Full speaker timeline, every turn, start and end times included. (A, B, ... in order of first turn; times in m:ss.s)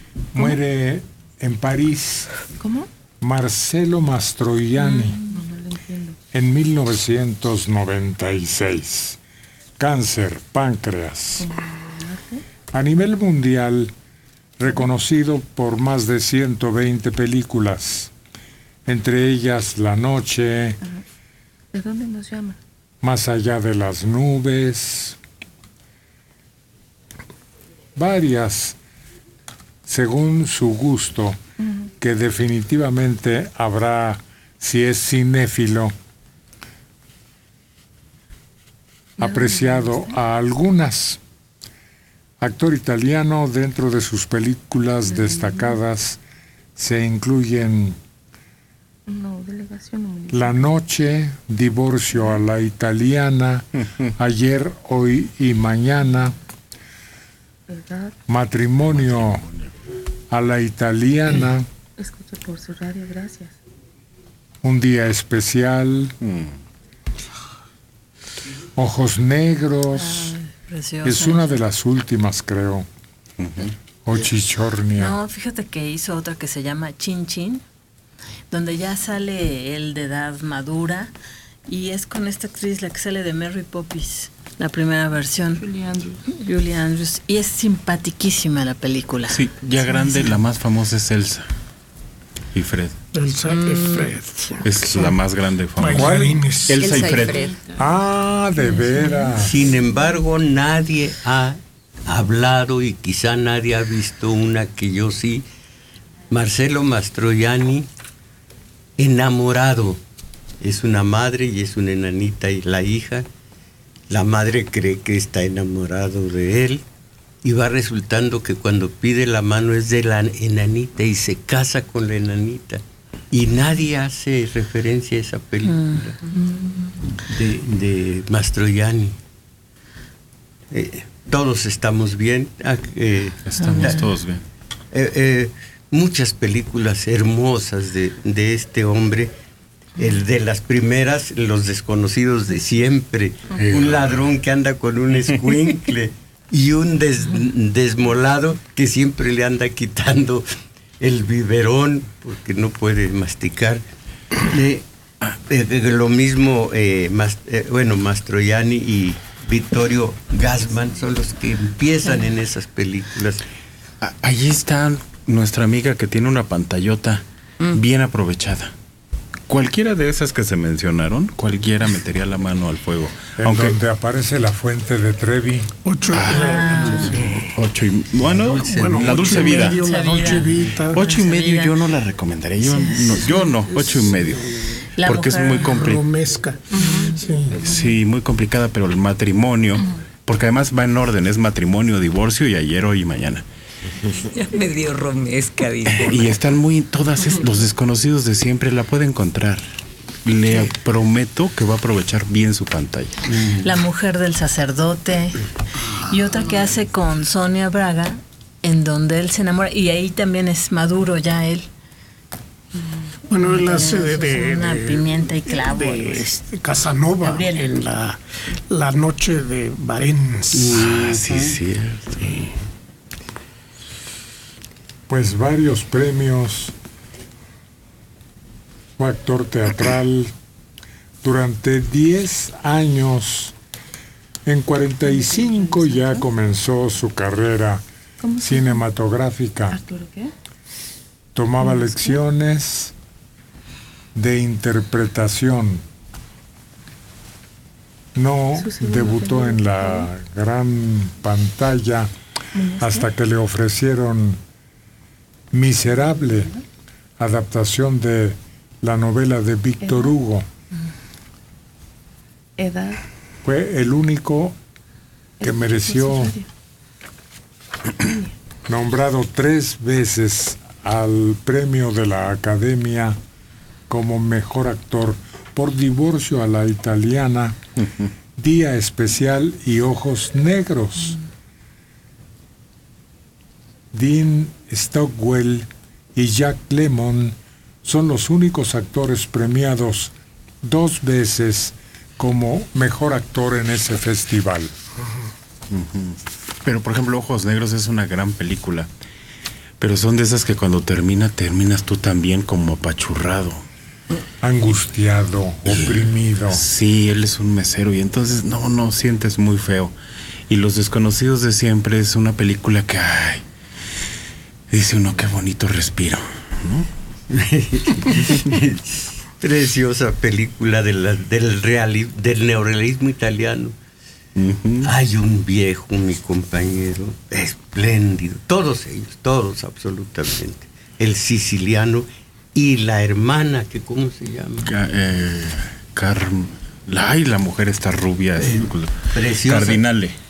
0:00.3-0:02.3 A
0:03.2-0:05.2 A
0:05.1-0:06.1 B
0:06.3-0:09.2 A
0:09.8-0:11.5 A
0:11.4-0:12.4 B
0:12.7-0:13.9 A
0:14.6-0:18.1 A
0:18.9-0:20.8 A
0:21.7-0:22.6 B
0:23.0-0:25.2 A
0:28.0-0:28.8 A
0:29.9-0:31.4 A
0:32.0-0:35.9 A
0:39.2-0:41.2 A
0:39.2-0:40.1 B
0:42.4-0:46.2 A
0:45.1-0:45.6 B
0:46.8-0:48.0 A
0:49.1-0:50.5 B
0:50.3-0:56.4 A
0:57.7-0:58.1 B
0:58.3-0:59.4 A
0:58.9-0:59.7 C
1:00.3-1:01.7 A
1:02.0-1:03.5 B
1:04.6-1:06.1 A
1:06.2-1:06.6 C
1:08.8-1:10.4 A
1:09.9-1:11.6 D
1:11.0-1:12.9 A
1:13.4-1:13.7 C
1:14.0-1:15.2 A
1:14.9-1:17.6 D
1:18.5-1:21.1 D
1:21.7-1:25.8 D
1:26.3-1:29.4 D
1:29.3-1:31.5 C
1:32.5-1:33.0 C
1:33.1-1:35.2 E
1:33.5-1:34.2 F
1:34.6-1:36.2 C
1:35.8-1:37.0 E
1:35.9-1:36.4 A
1:36.7-1:37.5 C
1:36.8-1:37.6 F
1:37.8-1:39.5 A
1:39.3-1:41.6 G
1:42.1-1:45.4 G
1:46.3-1:47.9 G
1:49.0-1:50.0 G
1:50.6-1:53.3 G
1:54.1-1:56.8 G
1:57.4-2:06.3 G
2:05.6-2:06.9 D
2:07.1-2:09.2 G
2:10.7-2:14.1 G
2:13.5-2:14.4 C
2:14.9-2:19.3 G
2:20.0-2:30.4 G
2:23.5-2:24.2 C
2:31.0-2:33.8 G
2:34.4-2:43.4 G
2:44.0-2:48.7 C
2:49.5-2:53.8 C
2:53.4-2:55.7 A
2:55.8-2:57.5 E
2:56.1-2:59.9 C
2:56.5-2:57.2 D
2:58.4-2:59.5 G
2:58.7-3:01.2 E
2:59.8-3:01.8 D
3:00.9-3:06.0 C
3:02.6-3:03.2 D
3:03.7-3:04.3 E
3:05.0-3:05.6 D
3:05.5-3:07.6 E
3:06.7-3:07.3 D
3:07.5-3:13.4 C
3:14.1-3:16.3 F
3:15.9-3:19.6 C
3:20.2-3:23.1 C
3:23.3-3:23.6 G
3:23.6-3:31.7 D
3:33.3-3:40.8 E
3:33.4-3:36.2 D
3:37.2-3:37.7 D
3:40.5-3:41.6 G
3:40.7-3:42.5 C
3:45.1-3:46.7 A
3:49.0-3:50.3 A
3:51.2-3:53.5 A
3:54.5-3:57.8 A
3:55.6-3:56.1 B
3:58.2-3:58.7 B
3:58.4-3:59.8 A
3:59.7-4:00.3 B
4:01.3-4:02.9 A
4:04.2-4:05.8 A
4:08.2-4:12.1 A
4:08.6-4:10.1 B
4:12.6-4:12.9 B
4:12.8-4:14.4 A
4:15.5-4:16.5 A
4:17.2-4:20.5 A
4:19.8-4:20.1 B
4:22.6-4:23.0 B
4:23.4-4:24.6 A
4:25.4-4:26.5 B
4:25.4-4:26.4 A
4:28.0-4:28.3 B
4:28.7-4:33.2 A
4:33.9-4:37.6 A
4:38.4-4:41.2 A
4:43.9-4:54.7 A
4:55.7-4:58.9 C
4:59.8-5:03.6 C
5:04.4-5:06.6 A
5:05.7-5:09.9 C
5:10.5-5:13.4 C
5:14.7-5:16.9 C
5:17.3-5:23.7 G
5:24.4-5:24.9 C
5:24.8-5:34.7 G
5:34.6-5:40.2 C
5:38.4-5:39.8 G